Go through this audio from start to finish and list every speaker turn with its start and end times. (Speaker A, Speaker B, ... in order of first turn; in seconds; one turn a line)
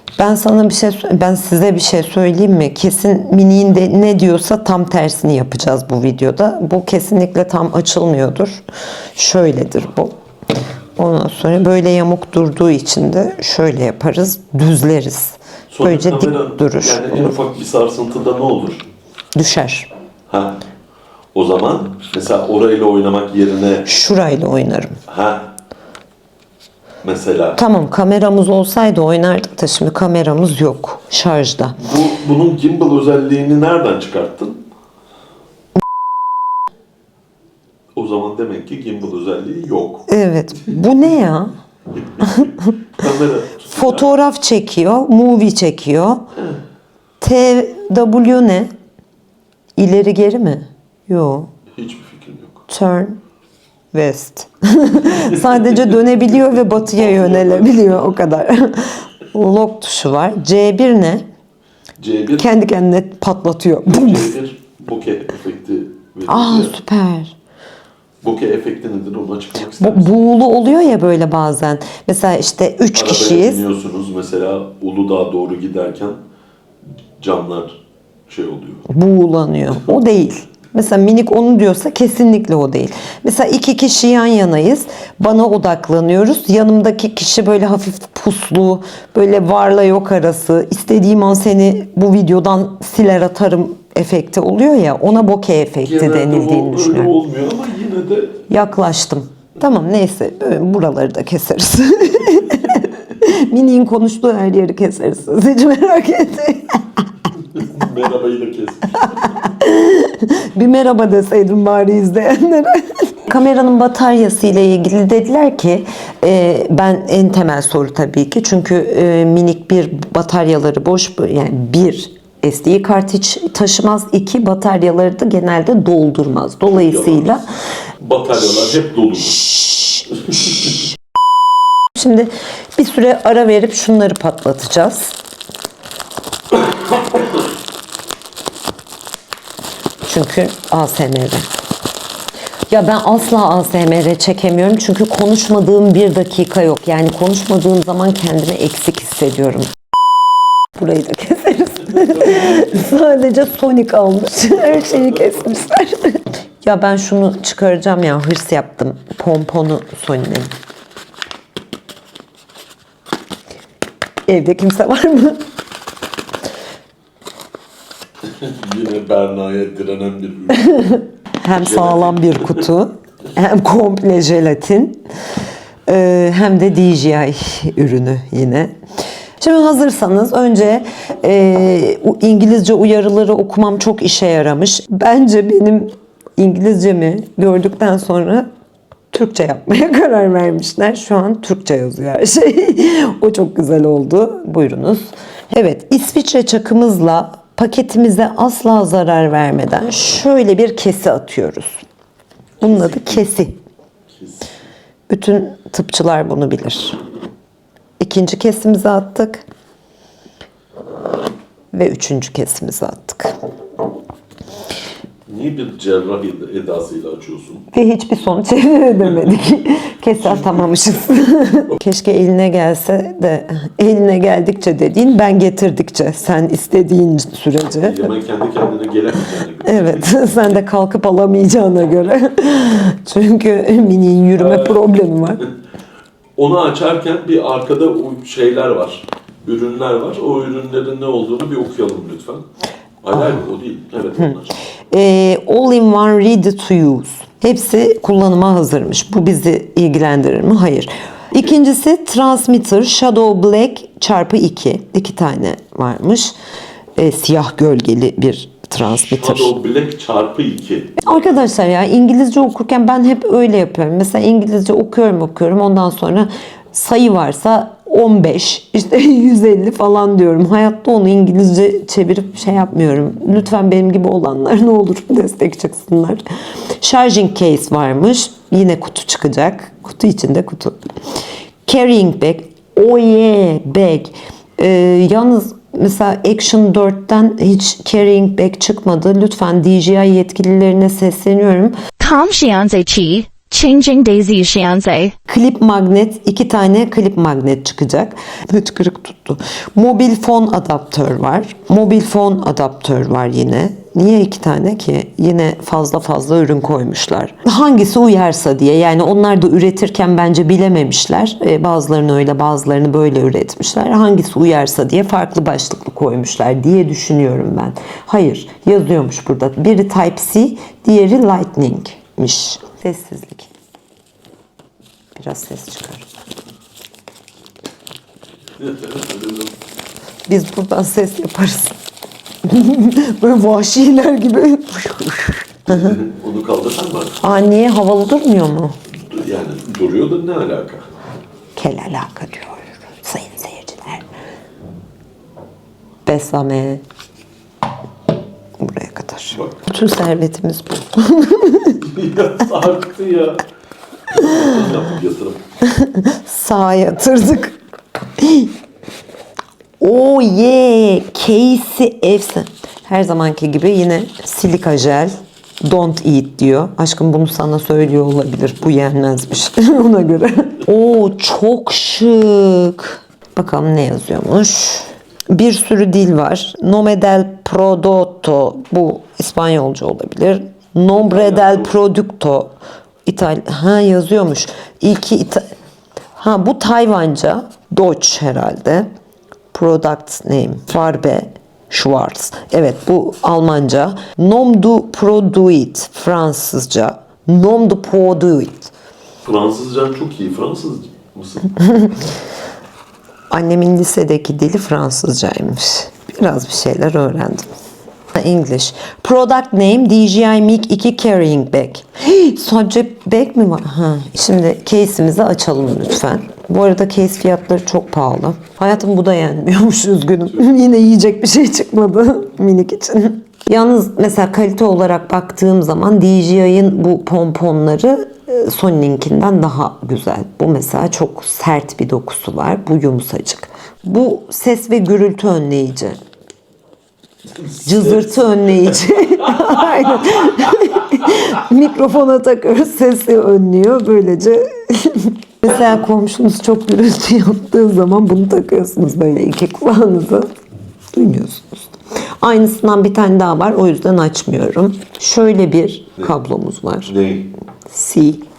Speaker A: 0.2-10.1
Speaker A: 11.0-17.3
Speaker B: 15.7-18.9
Speaker A: 19.4-19.9
Speaker B: 20.3-20.6
Speaker B: 21.3-23.9
Speaker A: 23.9-25.0
Speaker B: 25.1-25.5
Speaker B: 27.0-27.6
Speaker A: 27.6-31.8
Speaker B: 31.8-34.6
Speaker B: 37.9-40.1
Speaker A: 40.1-41.5
Speaker B: 42.2-44.1
Speaker A: 42.2-42.7
Speaker A: 43.7-46.2
Speaker A: 47.2-48.7
Speaker A: 49.8-51.5
Speaker B: 51.8-52.6
Speaker A: 52.7-53.2
Speaker A: 53.9-61.2
Speaker B: 55.1-58.1
Speaker B: 62.0-62.5
Speaker A: 62.4-64.3
Speaker B: 63.9-66.7
Speaker A: 66.3-67.3
Speaker B: 68.2-70.1
Speaker A: 69.8-73.6
Speaker B: 73.0-76.2
Speaker B: 77.2-78.9
Speaker A: 78.9-97.1
Speaker B: 95.8-98.4
Speaker A: 98.5-106.8
Speaker B: 107.5-109.4
Speaker A: 109.1-127.5
Speaker B: 126.7-127.3
Speaker B: 128.0-130.8
Speaker A: 131.9-135.1
Speaker B: 136.5-137.3
Speaker A: 140.1-141.5
Speaker A: 142.7-149.7
Speaker A: 150.8-160.5
Speaker B: 151.9-152.9
Speaker B: 154.6-155.6
Speaker A: 164.3-165.4
Speaker B: 168.2-171.0
Speaker A: 170.6-175.0
Speaker B: 171.5-172.6
Speaker A: 175.9-178.8
Speaker A: 179.4-188.5
Speaker A: 189.1-201.8
Speaker B: 202.6-203.3
Speaker A: 202.6-203.6
Speaker B: 204.1-204.4
Speaker A: 205.1-207.0
Speaker A: 208.0-209.4
Speaker A: 211.7-213.3
Speaker B: 215.3-217.7
Speaker A: 217.7-228.1
Speaker B: 220.2-221.7
Speaker B: 227.8-230.6
Speaker A: 229.6-235.4
Speaker B: 234.3-235.5
Speaker B: 236.3-242.5
Speaker B: 243.0-244.5
Speaker A: 244.9-256.3
Speaker A: 257.0-259.5
Speaker B: 259.0-261.4
Speaker A: 261.0-276.2
Speaker A: 276.8-280.8
Speaker A: 281.6-291.8
Speaker C: 292.0-295.1
Speaker A: 295.3-323.5
Speaker A: 325.1-326.1
Speaker B: 328.6-329.5
Speaker A: 330.3-331.8
Speaker A: 332.4-336.0
Speaker B: 335.7-337.2
Speaker A: 337.2-338.8
Speaker B: 338.9-340.9
Speaker A: 341.6-344.1
Speaker A: 346.1-346.8
Speaker A: 348.6-351.9
Speaker B: 349.3-349.6
Speaker B: 351.8-353.4
Speaker B: 354.1-355.4
Speaker A: 355.6-357.6
Speaker A: 358.2-358.5
Speaker A: 359.8-382.5
Speaker B: 381.1-381.7
Speaker A: 383.1-385.5
Speaker A: 386.2-388.9
Speaker A: 389.5-398.7
Speaker B: 399.2-401.5
Speaker A: 401.6-402.0
Speaker A: 403.3-407.5
Speaker A: 408.1-436.0
Speaker B: 437.4-438.2
Speaker A: 437.6-450.3
Speaker B: 439.2-440.8
Speaker A: 450.9-456.9
Speaker B: 456.9-457.3
Speaker A: 457.7-458.2